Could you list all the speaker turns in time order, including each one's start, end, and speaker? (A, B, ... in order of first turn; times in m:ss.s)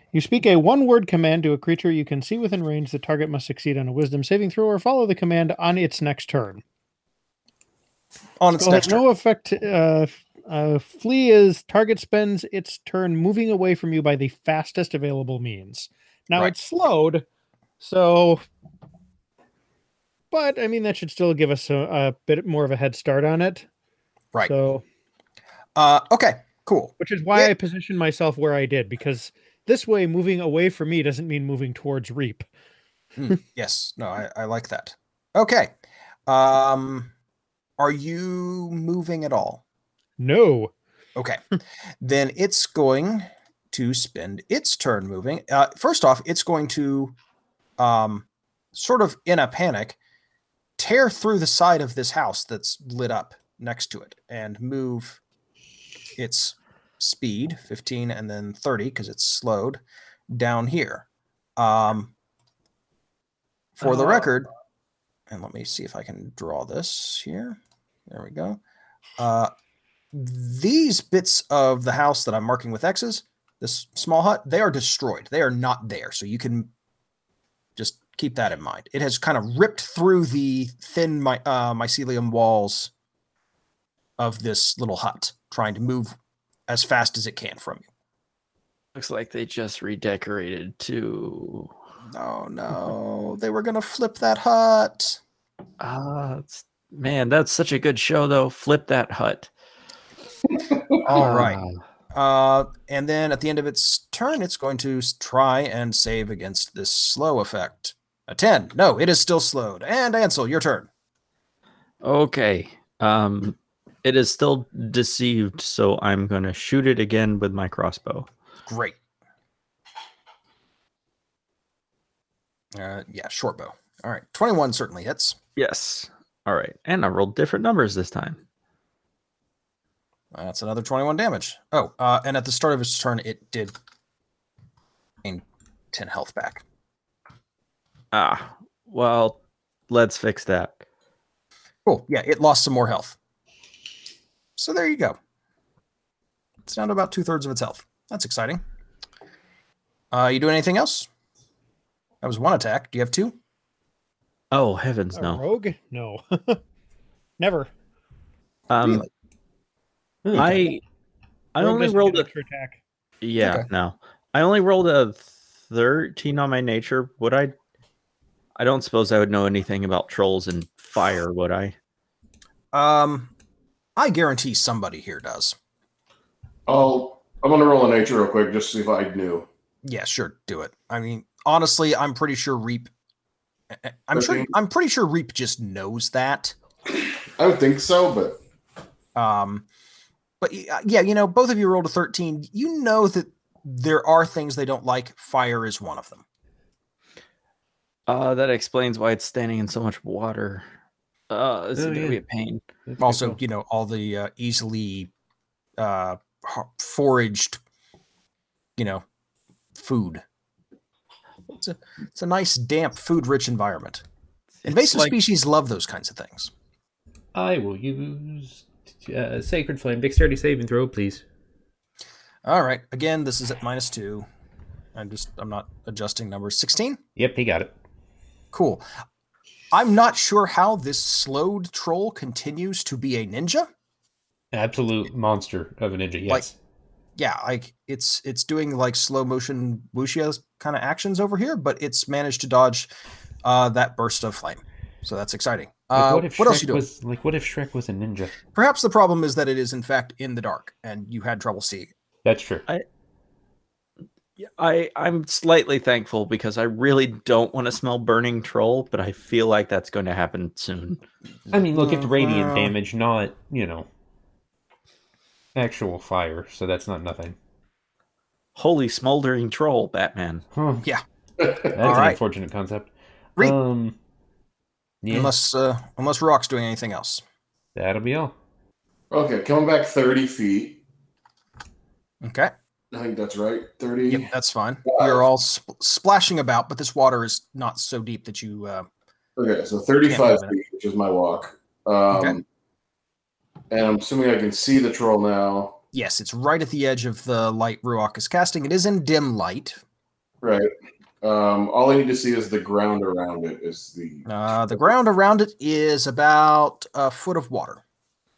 0:00.1-0:06.6 A
0:08.4-0:09.0 B
0:08.6-0:17.2 A
0:17.8-0:18.4 A
0:20.3-0:23.6 A
0:24.4-0:24.8 A
0:25.8-0:27.5 B
0:27.0-0:32.5 A
0:33.2-0:35.7 B
0:36.3-0:37.1 B
0:37.8-0:39.6 B
0:40.2-0:40.7 A
0:41.2-0:41.4 B
0:42.0-0:47.1 B
0:47.8-0:50.0 B
0:50.8-0:55.2 B
0:56.2-1:01.0 B
1:01.6-1:02.1 B
1:03.8-1:04.5 B
1:05.3-1:08.6 B
1:09.2-1:09.5 B
1:10.1-1:16.7 B
1:17.8-1:22.9 B
1:24.2-1:26.1 B
1:26.7-1:27.8 B
1:28.9-1:31.7 C
1:32.1-1:35.2 B
1:35.8-1:39.5 C
1:41.0-1:41.6 B
1:41.1-1:41.8 C
1:42.1-1:50.9 B
1:52.0-1:58.3 C
1:58.6-1:59.0 B
2:02.7-2:05.4 B
2:05.6-2:08.4 C
2:10.3-2:13.7 B
2:15.2-2:16.6 B
2:18.1-2:20.8 C
2:21.8-2:23.2 B
2:24.6-2:25.2 B
2:26.6-2:28.6 B
2:30.1-2:31.1 B
2:32.2-2:33.4 B
2:34.5-2:35.4 C
2:35.1-2:36.6 A
2:37.4-2:37.7 A
2:38.7-2:39.0 C
2:40.2-2:40.6 D
2:40.3-2:40.8 C
2:41.5-2:42.3 C
2:41.6-2:42.8 A
2:43.2-2:47.5 C
2:43.4-2:43.7 B
2:48.6-2:51.7 C
2:52.7-2:53.3 B
2:54.0-2:55.5 B
2:56.7-2:59.5 E
2:59.8-3:02.9 B
3:03.7-3:06.6 B
3:04.1-3:04.5 E
3:07.4-3:08.4 E
3:09.1-3:09.7 B
3:10.4-3:16.2 B
3:18.1-3:20.7 C
3:21.3-3:22.6 C
3:21.8-3:22.2 D
3:22.9-3:23.4 D
3:23.0-3:25.1 B
3:25.8-3:27.6 B
3:28.8-3:29.0 B
3:29.7-3:30.2 B
3:31.5-3:34.0 B
3:34.6-3:35.1 C
3:34.6-3:36.5 B
3:37.3-3:41.2 D
3:42.4-3:44.2 B
3:44.9-3:47.0 B
3:47.2-3:47.7 D
3:48.5-3:48.8 B
3:49.7-3:53.7 B
3:54.5-3:56.5 D
3:57.2-4:02.9 B
4:03.4-4:06.8 B
4:05.9-4:08.4 D
4:08.5-4:11.9 B
4:12.2-4:12.6 D
4:14.4-4:21.0 C
4:21.5-4:22.7 B
4:21.5-4:23.9 D
4:25.5-4:27.4 D
4:28.6-4:30.4 C
4:30.5-4:30.8 D
4:31.4-4:31.7 E
4:31.7-4:33.9 D
4:31.8-4:32.2 B
4:35.0-4:35.3 D
4:35.1-4:37.2 B
4:37.7-4:38.3 D
4:39.1-4:40.8 E
4:42.2-4:42.5 B
4:42.9-4:44.3 E
4:44.1-4:48.9 B
4:44.9-4:45.2 E
4:49.4-4:52.4 E
4:50.0-4:50.6 B
4:52.1-4:52.4 B
4:53.7-4:55.8 E
4:55.9-4:59.8 B
5:00.4-5:00.7 E
5:01.2-5:04.9 E
5:04.2-5:07.8 B